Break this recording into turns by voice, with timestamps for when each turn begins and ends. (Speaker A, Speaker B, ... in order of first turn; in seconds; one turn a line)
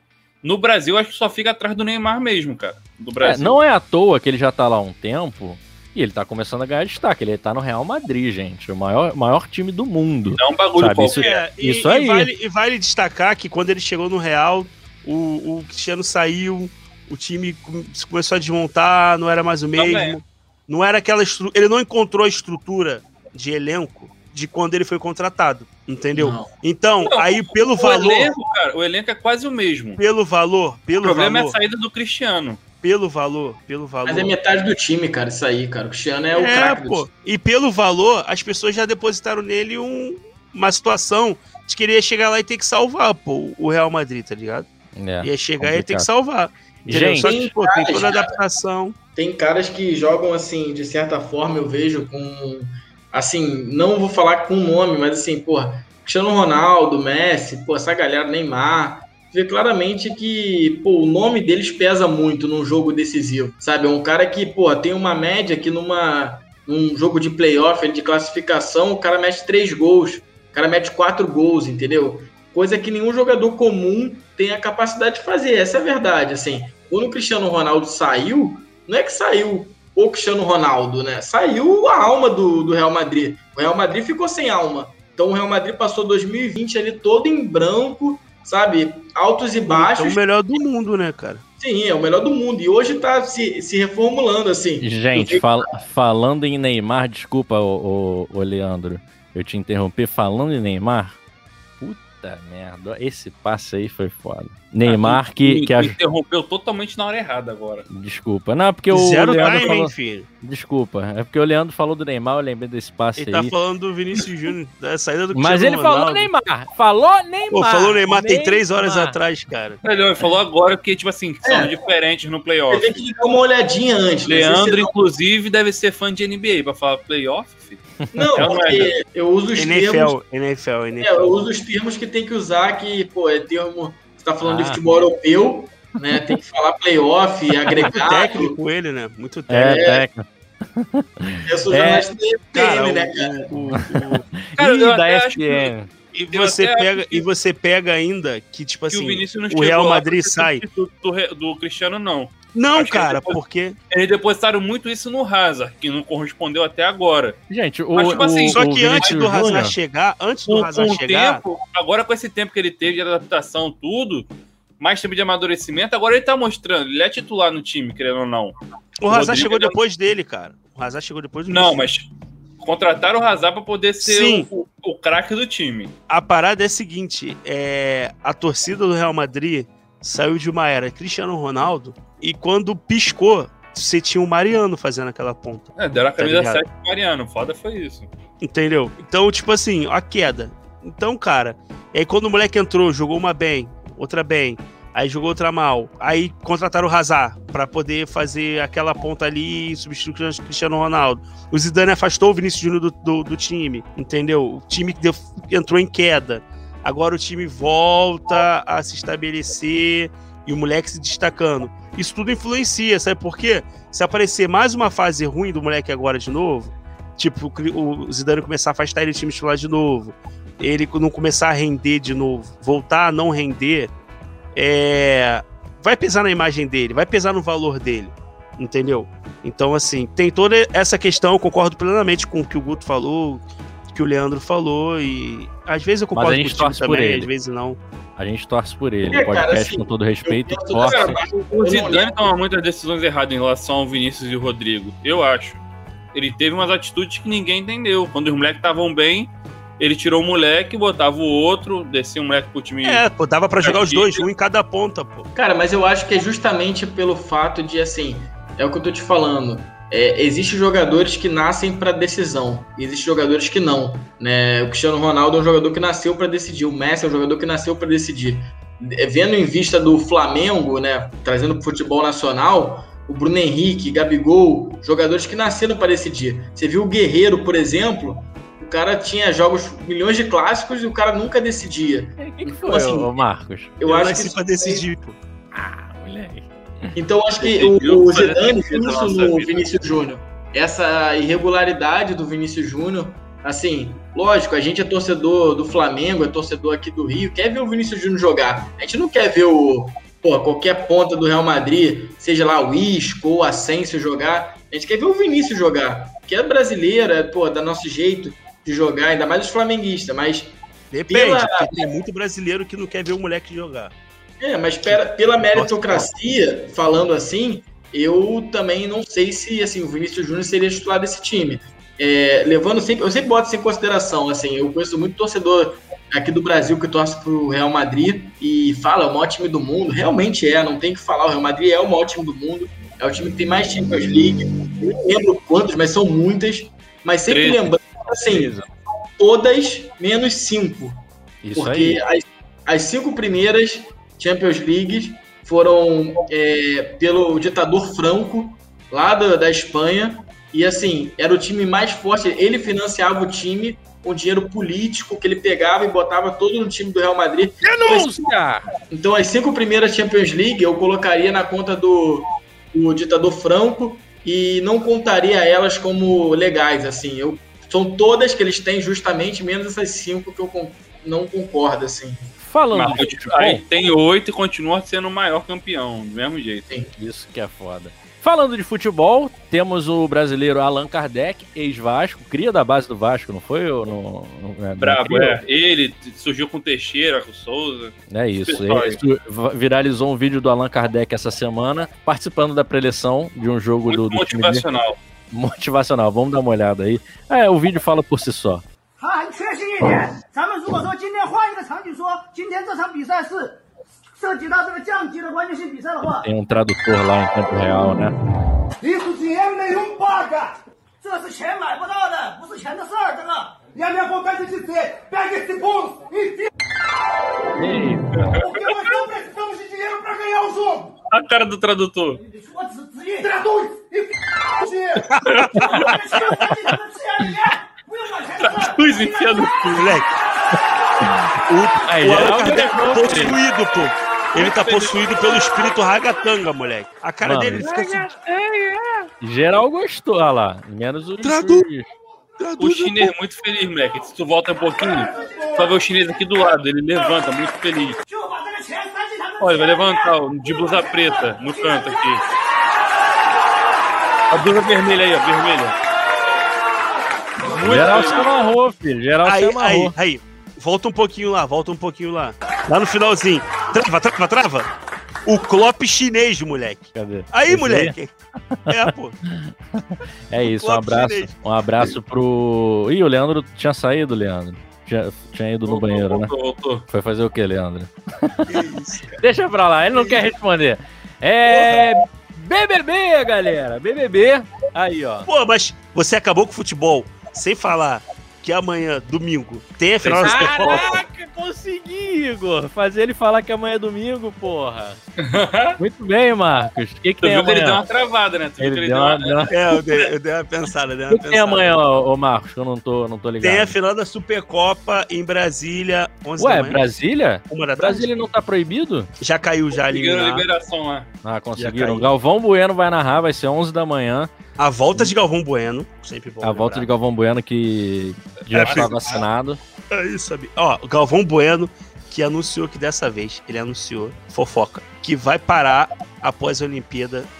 Speaker A: 0.4-3.6
Speaker B: 3.2-12.3
Speaker A: 10.3-11.4
Speaker C: 11.1-28.3
Speaker A: 19.8-20.2
Speaker D: 26.1-26.5
Speaker A: 27.0-30.0
Speaker C: 30.0-31.5
Speaker A: 31.0-32.6
Speaker C: 32.8-34.4
Speaker D: 34.0-37.1
Speaker C: 36.3-44.7
Speaker B: 45.0-46.1
Speaker C: 45.2-49.0
Speaker B: 46.8-47.5
Speaker D: 47.2-48.3
Speaker D: 49.1-90.2
Speaker C: 89.7-91.4
Speaker D: 91.6-95.5
Speaker B: 94.8-101.2
Speaker B: 101.8-106.0
Speaker A: 104.8-107.8
Speaker B: 107.9-113.5
Speaker C: 108.9-110.3
Speaker C: 113.2-116.3
Speaker B: 115.3-119.2
Speaker C: 117.5-119.8
Speaker A: 119.8-122.9
Speaker D: 121.4-121.7
Speaker D: 122.7-124.9
Speaker A: 124.2-127.8
Speaker B: 128.0-128.3
Speaker D: 128.1-130.2
Speaker A: 128.3-128.9
Speaker C: 129.5-131.3
Speaker D: 131.0-138.6
Speaker B: 134.4-134.8
Speaker C: 137.8-139.8
Speaker B: 139.5-142.1
Speaker D: 139.6-140.0
Speaker D: 141.4-143.5
Speaker C: 142.5-144.2
Speaker B: 143.6-145.9
Speaker A: 144.6-145.7
Speaker C: 146.1-150.6
Speaker A: 146.3-147.2
Speaker A: 148.9-153.4
Speaker C: 152.5-153.8
Speaker A: 153.9-157.4
Speaker B: 157.5-159.7
Speaker A: 157.9-159.2
Speaker C: 158.1-161.4
Speaker A: 160.5-164.3
Speaker A: 164.8-168.6
Speaker C: 169.0-171.8
Speaker A: 169.1-169.8
Speaker A: 171.5-172.1
Speaker A: 172.6-175.9
Speaker C: 174.0-174.5
Speaker C: 176.1-186.6
Speaker A: 185.8-188.1
Speaker C: 188.4-223.9
Speaker C: 224.5-237.8
Speaker B: 236.1-237.3
Speaker B: 238.2-241.2
Speaker D: 239.1-242.3
Speaker A: 240.8-245.6
Speaker A: 246.1-253.0
Speaker C: 252.8-255.3
Speaker A: 253.6-254.2
Speaker D: 255.3-283.1
Speaker B: 282.2-283.7
Speaker D: 283.8-284.8
Speaker C: 283.8-285.2
Speaker B: 285.5-286.9
Speaker D: 286.9-310.6
Speaker A: 287.4-289.6
Speaker C: 310.9-313.9
Speaker D: 311.1-311.8
Speaker D: 314.4-338.6
Speaker C: 315.5-316.1
Speaker A: 337.3-337.6
Speaker B: 338.3-338.7
Speaker D: 339.2-341.0
Speaker B: 341.4-342.0
Speaker D: 341.5-358.2
Speaker B: 357.6-358.6
Speaker D: 358.9-372.2
Speaker B: 372.4-373.6
Speaker A: 372.7-376.6
Speaker B: 377.0-385.4
Speaker A: 384.8-389.0
Speaker B: 388.1-394.6
Speaker A: 393.9-395.0
Speaker B: 395.3-398.6
Speaker E: 399.0-403.6
Speaker E: 404.1-406.3
Speaker B: 406.2-408.1
Speaker E: 408.8-416.5
Speaker B: 417.6-418.1
Speaker E: 417.6-420.9
Speaker A: 418.2-418.5
Speaker A: 421.1-422.2
Speaker E: 422.1-425.1
Speaker C: 425.1-425.9
Speaker A: 425.3-425.9
Speaker E: 425.6-429.7
Speaker A: 428.4-430.0
Speaker C: 429.7-430.1
Speaker C: 431.5-438.1
Speaker B: 431.9-433.4
Speaker A: 434.4-435.2
Speaker B: 437.2-438.0
Speaker A: 437.6-439.1
Speaker B: 439.2-441.9
Speaker C: 441.2-441.7
Speaker C: 442.4-443.1
Speaker A: 442.6-448.0
Speaker E: 444.6-445.9
Speaker E: 446.9-447.5
Speaker E: 448.1-452.2
Speaker A: 449.4-452.2
Speaker A: 454.3-455.7
Speaker A: 457.5-458.3
Speaker B: 457.5-459.9
Speaker C: 459.2-464.7
Speaker C: 465.2-468.1
Speaker B: 466.9-467.9
Speaker B: 468.6-476.3
Speaker C: 468.7-469.1
Speaker C: 470.5-471.9
Speaker A: 475.7-476.8
Speaker B: 476.9-478.4
Speaker C: 478.5-479.3
Speaker B: 479.2-485.3
Speaker C: 479.9-480.3
Speaker C: 481.5-481.9
Speaker C: 485.3-491.0
Speaker A: 490.0-491.0
Speaker B: 490.2-495.0
Speaker A: 495.2-495.8
Speaker B: 495.8-497.8
Speaker A: 497.2-499.5
Speaker B: 498.6-499.5
Speaker C: 499.5-501.9
Speaker B: 501.1-503.8
Speaker C: 503.4-506.8
Speaker B: 506.4-509.1
Speaker C: 507.5-508.1
Speaker C: 509.2-510.4
Speaker A: 509.9-511.1
Speaker B: 511.2-514.3
Speaker C: 511.6-512.1
Speaker C: 514.6-516.9
Speaker B: 516.4-519.6
Speaker A: 518.5-519.2
Speaker C: 518.5-519.2
Speaker C: 519.9-527.3